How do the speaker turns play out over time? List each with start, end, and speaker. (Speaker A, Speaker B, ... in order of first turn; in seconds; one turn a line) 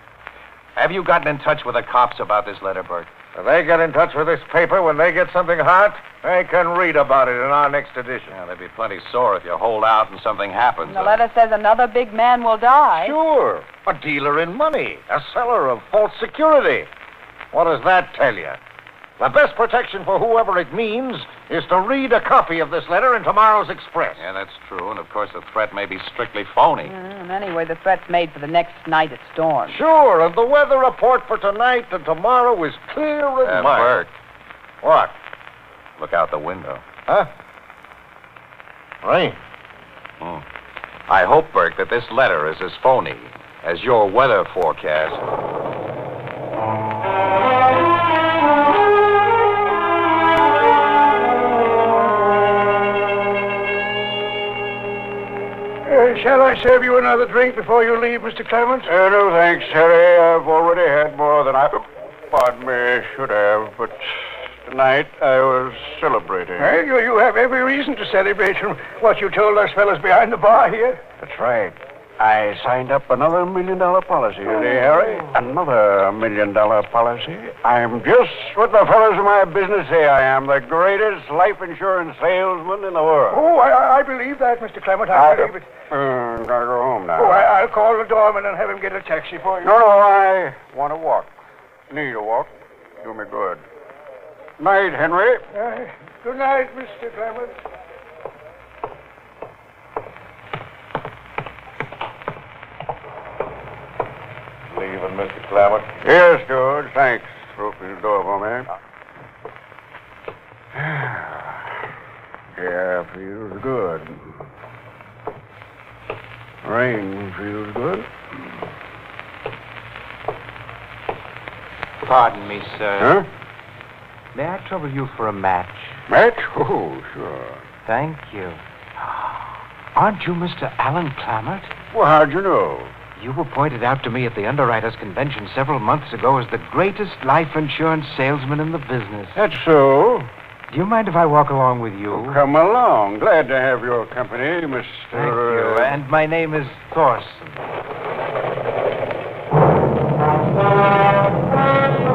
Speaker A: 0.8-3.1
Speaker B: 3.4-8.3
Speaker A: 8.3-11.2
Speaker C: 10.8-13.2
Speaker B: 12.9-16.9
Speaker B: 17.5-18.6
Speaker B: 19.2-24.2
Speaker A: 24.2-26.9
Speaker C: 26.8-29.8
Speaker B: 29.7-34.0
Speaker A: 33.4-34.1
Speaker B: 34.8-35.1
Speaker A: 36.0-36.8
Speaker B: 39.0-39.4
Speaker A: 41.1-45.2
Speaker D: 55.9-58.9
Speaker E: 58.9-64.0
Speaker E: 64.6-66.8
Speaker D: 66.6-71.0
Speaker E: 71.2-83.5
Speaker D: 83.3-85.7
Speaker E: 85.1-87.5
Speaker D: 87.2-89.7
Speaker E: 89.6-91.3
Speaker E: 91.9-93.6
Speaker E: 94.6-95.5
Speaker D: 95.5-97.6
Speaker E: 104.7-108.7
Speaker E: 110.8-111.6
Speaker E: 112.6-114.2
Speaker E: 116.6-118.1
Speaker F: 122.0-123.2
Speaker E: 123.0-123.3
Speaker F: 124.3-126.0
Speaker E: 126.1-127.6
Speaker F: 127.8-128.6
Speaker F: 129.9-131.7
Speaker E: 131.9-132.9
Speaker F: 133.2-139.4
Speaker E: 139.3-140.3
Speaker F: 140.7-142.4
Speaker E: 142.1-146.0
Speaker F: 145.1-147.6